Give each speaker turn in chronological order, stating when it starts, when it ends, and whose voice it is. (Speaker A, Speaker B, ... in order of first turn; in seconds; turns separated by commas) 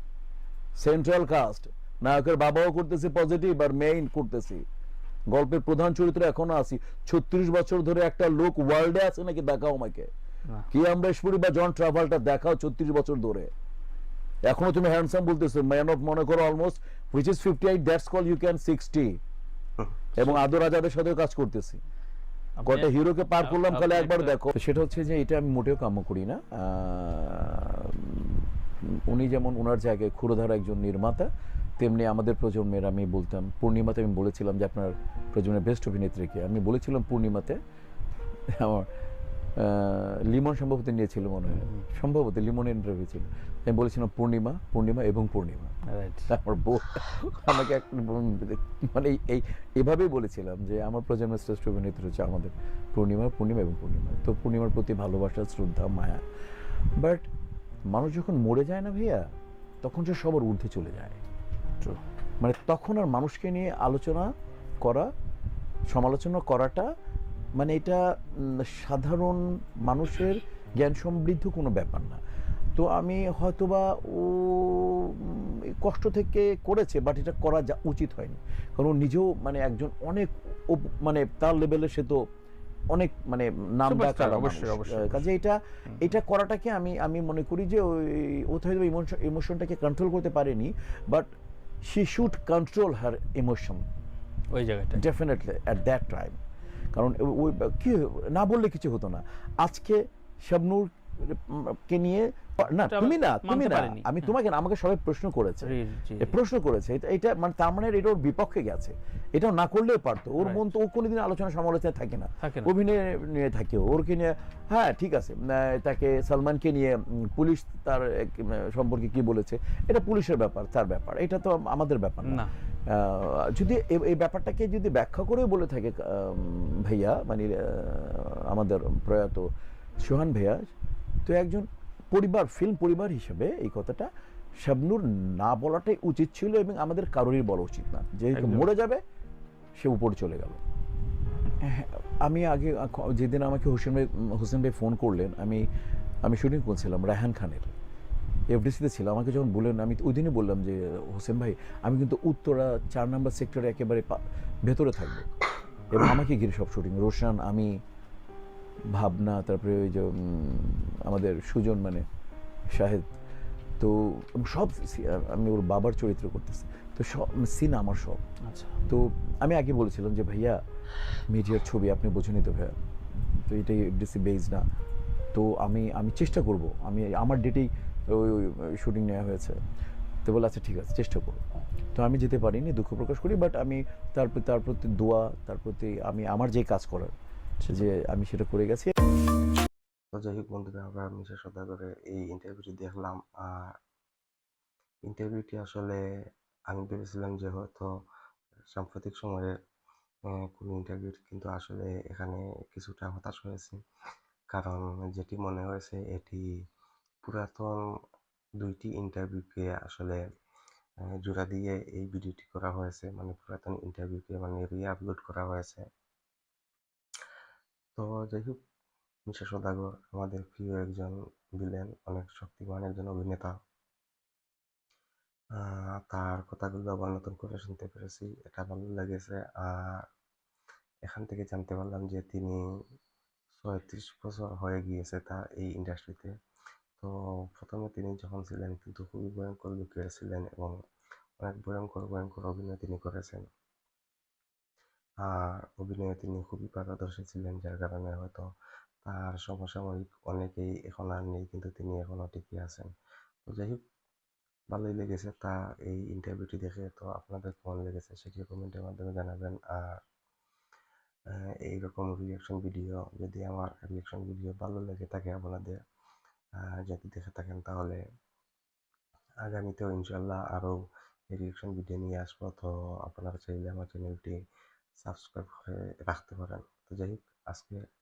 Speaker A: 0.8-4.7, Speaker A: 5.3-10.1, Speaker A: 10.7-13.5, Speaker A: 14.4-19.2, Speaker B: 20.2-20.5, Speaker A: 20.2-21.8, Speaker B: 22.6-24.4, Speaker A: 22.7-31.3, Speaker A: 31.8-37.6, Speaker A: 38.5-38.9, Speaker A: 39.6-45.7, Speaker B: 41.5-41.9, Speaker B: 45.9-46.3, Speaker A: 46.3-56.2, Speaker A: 57.0-57.3, Speaker A: 57.9-59.3, Speaker A: 59.8-61.2, Speaker A: 62.4-64.3, Speaker A: 64.8-65.1, Speaker A: 65.9-66.9, Speaker A: 67.6-72.2, Speaker A: 72.8-82.2, Speaker A: 82.9-91.3, Speaker B: 83.9-85.2, Speaker A: 91.8-93.8, Speaker B: 94.5-95.0, Speaker A: 95.0-96.4, Speaker A: 96.9-129.5, Speaker B: 102.8-104.3, Speaker B: 105.7-106.3, Speaker B: 112.4-112.7, Speaker A: 130.0-130.7, Speaker A: 131.3-134.1, Speaker A: 134.6-139.0, Speaker B: 138.3-138.7, Speaker A: 139.8-140.6, Speaker A: 141.6-145.7, Speaker A: 146.2-147.7, Speaker A: 148.5-155.3, Speaker A: 155.9-157.8, Speaker A: 158.9-162.1, Speaker A: 162.7-163.1, Speaker A: 163.8-168.2, Speaker B: 168.4-168.7, Speaker A: 168.9-170.6, Speaker A: 171.3-172.8, Speaker A: 173.3-174.7, Speaker A: 175.3-179.6, Speaker A: 180.2-181.4, Speaker A: 181.9-187.1, Speaker A: 187.7-188.9, Speaker C: 190.1-193.8, Speaker C: 195.1-196.0, Speaker C: 196.7-197.9, Speaker C: 198.7-199.5, Speaker C: 200.3-203.8, Speaker C: 204.5-206.4, Speaker C: 207.3-207.8, Speaker C: 208.6-210.2, Speaker C: 211.2-215.8, Speaker C: 218.0-218.6, Speaker C: 219.3-223.5, Speaker C: 225.6-230.1, Speaker C: 231.1-232.6, Speaker C: 233.6-236.3, Speaker C: 237.0-240.7, Speaker C: 241.4-243.4, Speaker C: 245.2-248.5, Speaker C: 249.1-252.9, Speaker C: 253.5-253.8, Speaker C: 254.7-260.0, Speaker C: 261.3-265.8, Speaker C: 266.6-268.0, Speaker C: 269.4-270.8, Speaker C: 271.3-274.4, Speaker C: 275.0-277.8